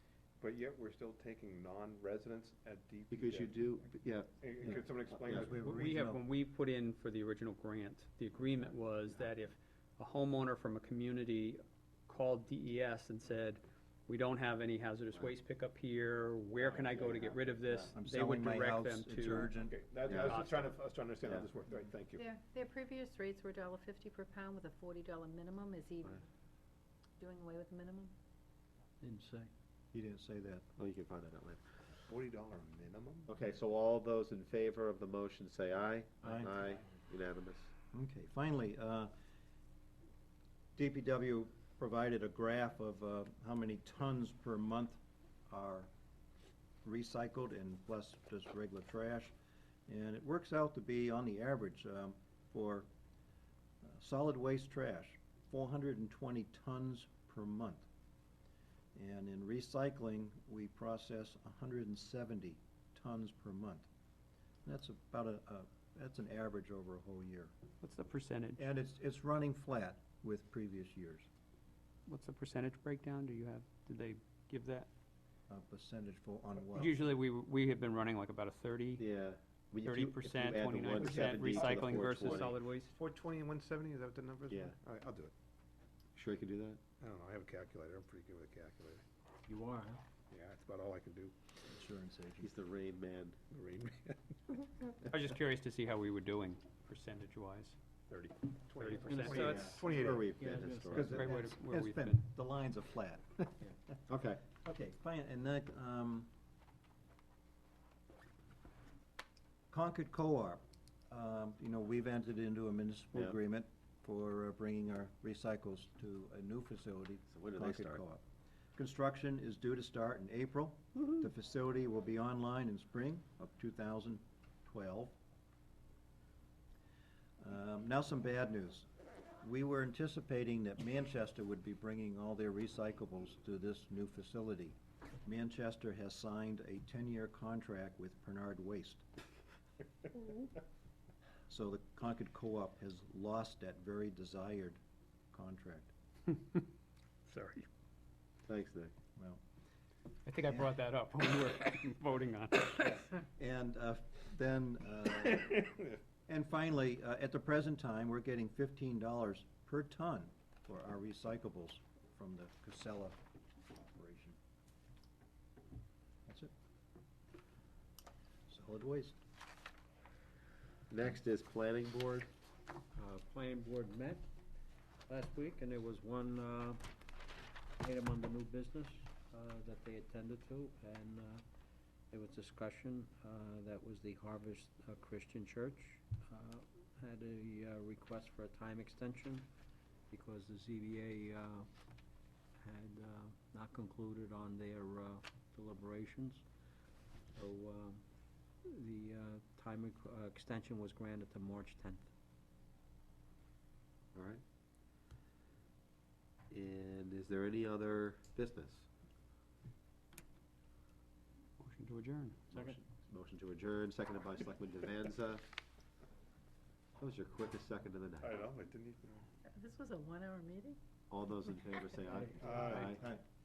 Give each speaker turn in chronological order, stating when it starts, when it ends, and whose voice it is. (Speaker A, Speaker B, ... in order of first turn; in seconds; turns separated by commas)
Speaker A: 0.4-3.7, Speaker B: 3.1-5.6, Speaker A: 4.4-5.5, Speaker C: 4.6-6.2, Speaker D: 5.6-19.6, Speaker A: 16.6-17.6, Speaker C: 17.9-19.7, Speaker A: 19.6-22.2, Speaker B: 20.1-20.5, Speaker D: 20.1-20.7, Speaker E: 22.2-26.1, Speaker E: 27.2-28.1, Speaker F: 29.0-29.5, Speaker C: 29.9-30.6, Speaker B: 30.8-31.6, Speaker A: 32.1-33.3, Speaker B: 33.2-37.7, Speaker C: 36.2-36.6, Speaker C: 37.9-39.1, Speaker C: 40.8-45.0, Speaker C: 45.5-45.9, Speaker C: 46.8-49.3, Speaker C: 49.9-52.9, Speaker C: 53.8-57.9, Speaker C: 59.0-63.9, Speaker C: 64.6-67.5, Speaker D: 67.8-68.6, Speaker C: 68.6-71.3, Speaker D: 72.1-74.9, Speaker C: 75.5-77.0, Speaker D: 76.8-79.0, Speaker B: 79.0-82.5, Speaker D: 79.8-82.9, Speaker A: 81.1-85.3, Speaker B: 84.5-84.8, Speaker B: 86.1-86.8, Speaker A: 87.0-89.0, Speaker F: 89.5-90.0, Speaker A: 90.3-91.4, Speaker C: 91.7-92.5, Speaker B: 92.4-93.4, Speaker A: 93.5-94.4, Speaker D: 95.1-97.8, Speaker A: 98.1-100.3, Speaker D: 98.8-99.8, Speaker F: 99.0-99.8, Speaker C: 99.4-99.8, Speaker B: 99.6-101.2, Speaker F: 100.3-101.3, Speaker C: 100.9-104.0, Speaker D: 100.9-102.2, Speaker B: 104.1-104.4, Speaker C: 104.5-106.3, Speaker C: 109.7-118.2, Speaker B: 117.3-118.0, Speaker C: 118.8-125.2, Speaker C: 127.4-128.9, Speaker C: 129.4-139.0, Speaker C: 141.5-144.8, Speaker C: 145.3-145.9, Speaker D: 147.3-147.7, Speaker B: 148.5-148.9, Speaker D: 150.3-153.2, Speaker C: 153.4-155.6, Speaker C: 156.3-163.2, Speaker C: 163.8-164.4, Speaker C: 166.3-166.5, Speaker C: 168.5-169.2, Speaker B: 170.9-172.3, Speaker F: 172.9-174.3, Speaker F: 175.1-176.8, Speaker F: 177.8-181.4, Speaker F: 182.1-189.5, Speaker F: 190.1-191.7, Speaker F: 192.6-196.4, Speaker F: 197.3-198.1, Speaker F: 198.6-202.1, Speaker B: 204.1-204.4, Speaker B: 206.5-208.9, Speaker D: 211.6-212.4, Speaker B: 212.5-215.4, Speaker F: 212.5-212.8, Speaker B: 217.0-218.5, Speaker A: 218.2-219.3, Speaker E: 219.4-220.8, Speaker B: 221.1-223.0, Speaker F: 222.1-222.8, Speaker A: 222.4-222.9, Speaker C: 222.8-223.2